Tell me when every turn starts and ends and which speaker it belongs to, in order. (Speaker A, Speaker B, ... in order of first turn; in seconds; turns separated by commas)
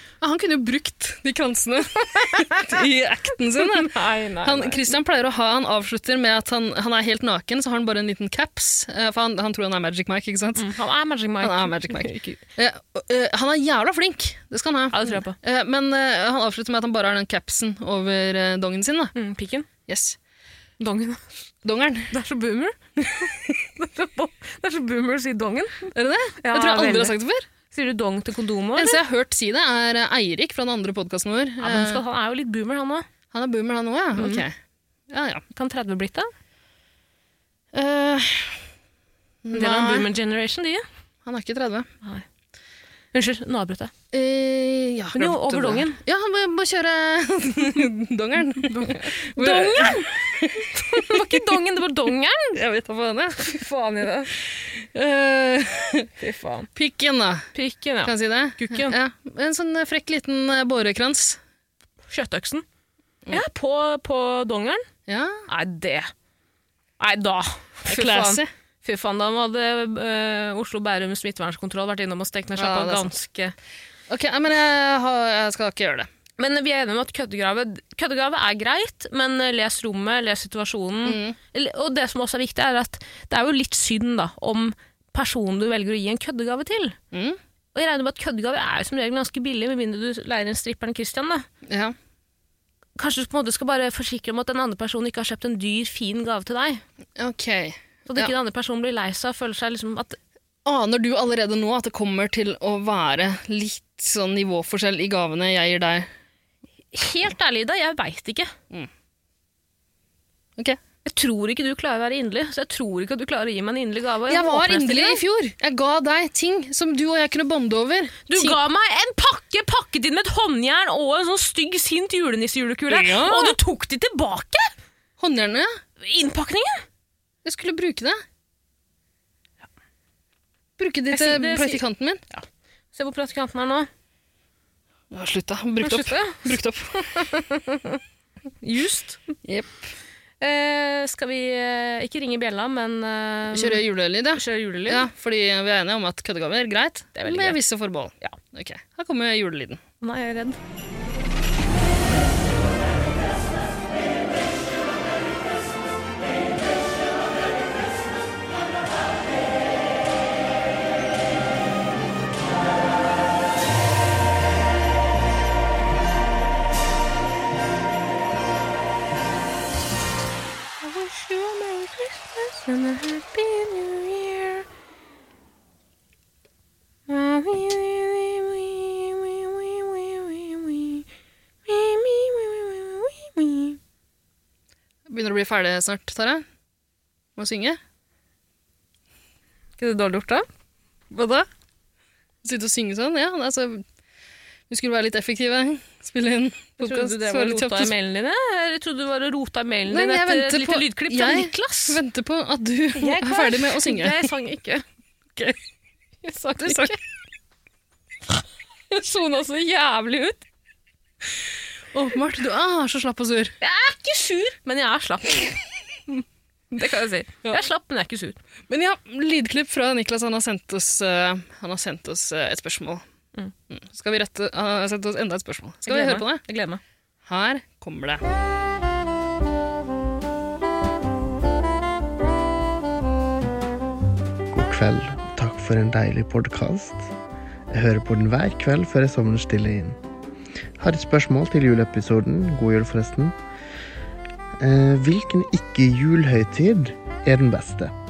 Speaker A: 0.2-10.7, Speaker B: 2.2-2.8, Speaker B: 3.6-4.9, Speaker B: 10.6-12.4, Speaker A: 11.4-19.1, Speaker B: 14.9-15.4, Speaker B: 19.1-19.7, Speaker A: 19.9-20.2, Speaker B: 20.8-21.5, Speaker A: 21.6-22.1, Speaker B: 22.1-22.8, Speaker A: 23.0-23.6, Speaker B: 23.8-27.1, Speaker A: 25.9-27.4, Speaker B: 27.7-29.0, Speaker A: 28.8-32.0, Speaker B: 31.6-33.1, Speaker A: 33.3-34.5, Speaker B: 34.2-34.5, Speaker A: 35.1-35.4, Speaker B: 35.5-36.3, Speaker A: 37.7-38.6, Speaker A: 39.4-40.1, Speaker B: 39.5-40.8, Speaker A: 41.2-41.9, Speaker B: 43.1-43.9, Speaker A: 44.1-51.6, Speaker B: 45.2-46.0, Speaker B: 48.6-52.6, Speaker A: 52.5-53.6, Speaker B: 53.4-54.3, Speaker A: 54.5-56.1, Speaker B: 56.2-56.7, Speaker A: 56.8-57.5, Speaker B: 57.5-59.0, Speaker A: 58.0-61.4, Speaker B: 62.1-62.6, Speaker B: 63.3-64.9, Speaker A: 65.1-65.5, Speaker B: 65.5-66.1, Speaker B: 67.0-73.5, Speaker A: 67.9-68.5, Speaker A: 72.6-73.1, Speaker A: 74.1-76.1, Speaker B: 76.4-87.0, Speaker A: 81.0-81.4, Speaker A: 87.1-87.4, Speaker B: 87.8-91.5, Speaker A: 91.7-92.0, Speaker B: 93.0-96.8, Speaker A: 97.2-98.3, Speaker B: 98.1-100.2, Speaker A: 100.7-106.1, Speaker B: 106.9-108.5, Speaker B: 111.0-115.2, Speaker A: 114.3-118.6, Speaker B: 118.3-124.7, Speaker A: 122.9-123.6, Speaker A: 125.2-125.8, Speaker B: 126.0-126.8, Speaker A: 127.4-128.2, Speaker A: 130.8-132.2, Speaker B: 131.1-133.9, Speaker A: 135.1-137.1, Speaker B: 135.8-138.0, Speaker B: 138.6-139.2, Speaker A: 139.4-139.8, Speaker B: 140.4-145.1, Speaker A: 143.5-149.8, Speaker B: 147.2-147.6, Speaker B: 150.0-150.6, Speaker B: 170.8-174.7, Speaker B: 177.1-181.1, Speaker B: 181.7-183.8, Speaker A: 185.1-186.4, Speaker A: 187.4-187.8, Speaker B: 189.8-190.5, Speaker A: 191.1-191.5, Speaker A: 192.4-193.8, Speaker A: 194.7-197.9, Speaker B: 196.8-202.0, Speaker A: 199.9-204.3, Speaker B: 203.0-204.8, Speaker B: 206.2-207.0, Speaker A: 206.6-207.0, Speaker B: 208.9-210.4, Speaker A: 211.9-213.6, Speaker B: 213.6-218.4, Speaker A: 218.7-223.0, Speaker A: 223.7-226.4, Speaker B: 225.9-226.8, Speaker A: 227.3-228.2, Speaker C: 234.5-237.1, Speaker C: 237.7-240.0, Speaker C: 240.8-243.3, Speaker C: 244.6-247.9